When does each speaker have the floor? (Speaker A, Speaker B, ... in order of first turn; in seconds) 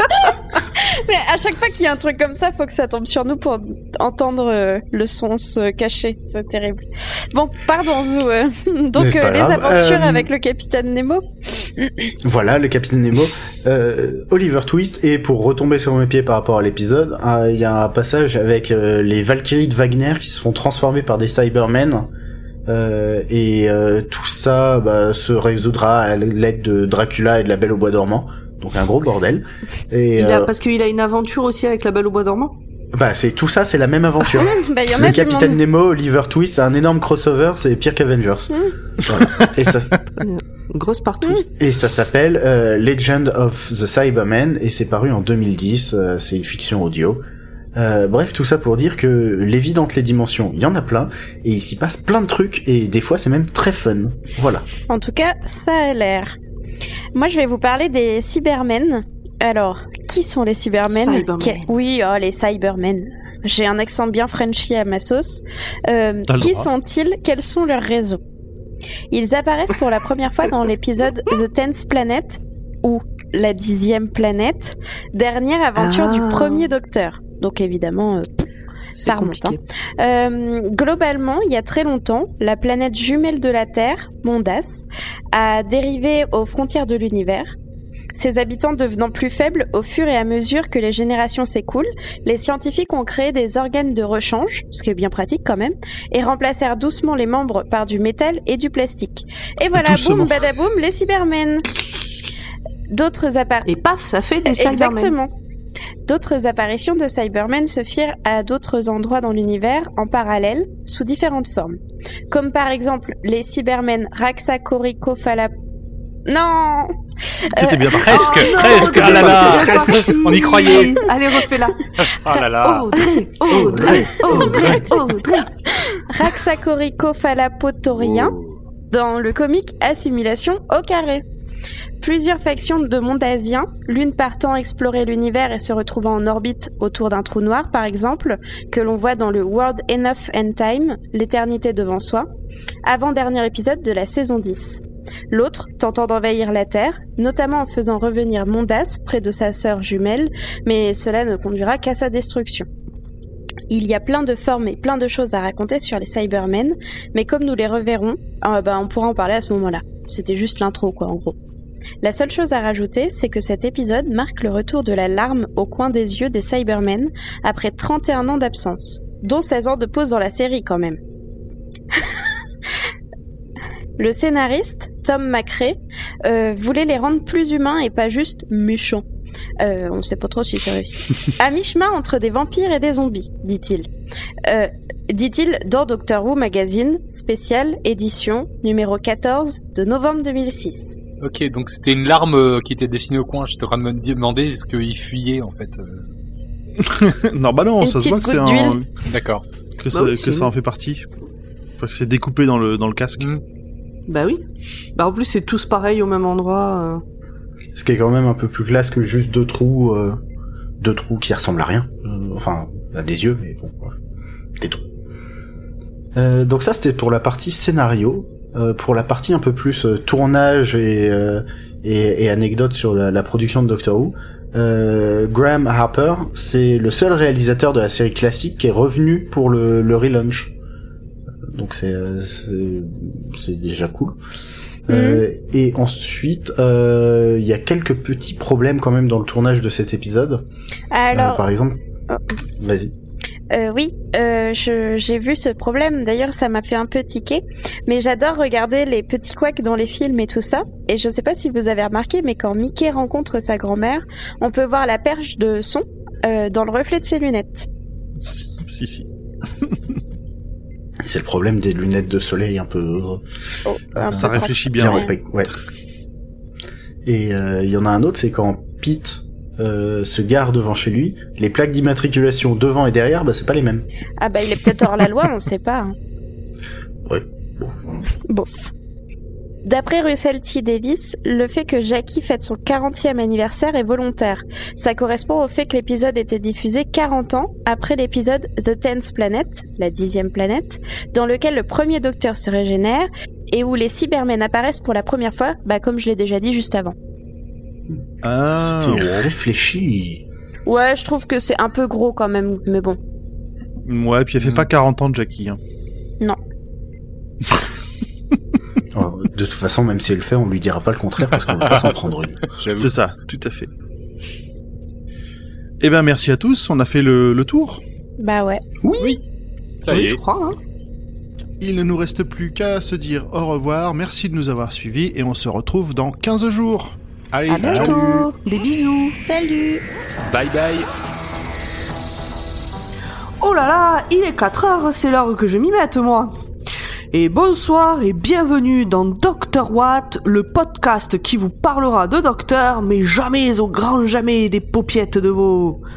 Speaker A: 0.3-12.1, 34.4-35.6, 54.9-56.4, 57.1-68.2, 69.1-78.5, 79.0-87.5, 88.1-101.7, 102.9-103.7, 104.5-105.3, 106.1-111.8, 112.3-115.5, 116.3-118.2, 124.3-124.8, 125.9-128.3, 128.9-131.2, 132.0-142.3, 142.9-152.7, 153.7-161.4, 162.0-171.0, 171.9-172.2, 174.0-179.1, 179.6-183.9, 184.5-191.0, 197.8-198.8, 234.9-235.2, 240.9-241.4, 243.5-257.7, 263.7-265.1, 274.2-275.9, 278.3-278.7, 279.6-296.9, 300.7-303.0, 318.2-318.6, 327.5-328.0, 329.2-329.8
Speaker B: 9.0-10.3, 12.2-22.1, 22.7-30.5, 32.9-39.9, 41.6-47.2, 47.8-54.6, 123.5-124.8, 207.7-210.2, 210.8-214.0, 214.6-214.8, 216.1-230.5, 231.5-234.2, 234.9-240.4, 241.1-241.8, 242.6-242.9, 261.0-263.2, 264.0-265.5, 267.1-273.9, 277.1-277.8, 298.6-300.2, 308.9-312.4, 318.8-319.2
Speaker C: 30.2-32.5, 40.2-41.4, 60.9-61.7, 75.8-76.7, 79.0-79.6, 103.7-105.1, 118.1-121.9, 122.6-125.5, 199.9-200.5, 204.1-204.4, 205.0-207.0, 319.9-320.6, 327.6-329.2, 333.4-336.3, 337.1-345.8
Speaker D: 66.3-66.7, 99.8-100.4, 117.5-119.9, 196.8-198.9, 199.8-201.1, 201.8-203.3, 258.2-259.1, 259.6-260.0, 264.1-265.1, 298.2-299.3, 303.9-305.6, 312.8-313.7, 315.8-317.8, 321.6-328.0
Speaker E: 118.0-121.0, 122.0-122.9, 128.0-128.5, 191.2-196.1, 199.1-199.4, 304.4-304.7, 312.5-312.9, 319.8-320.2, 330.3-330.9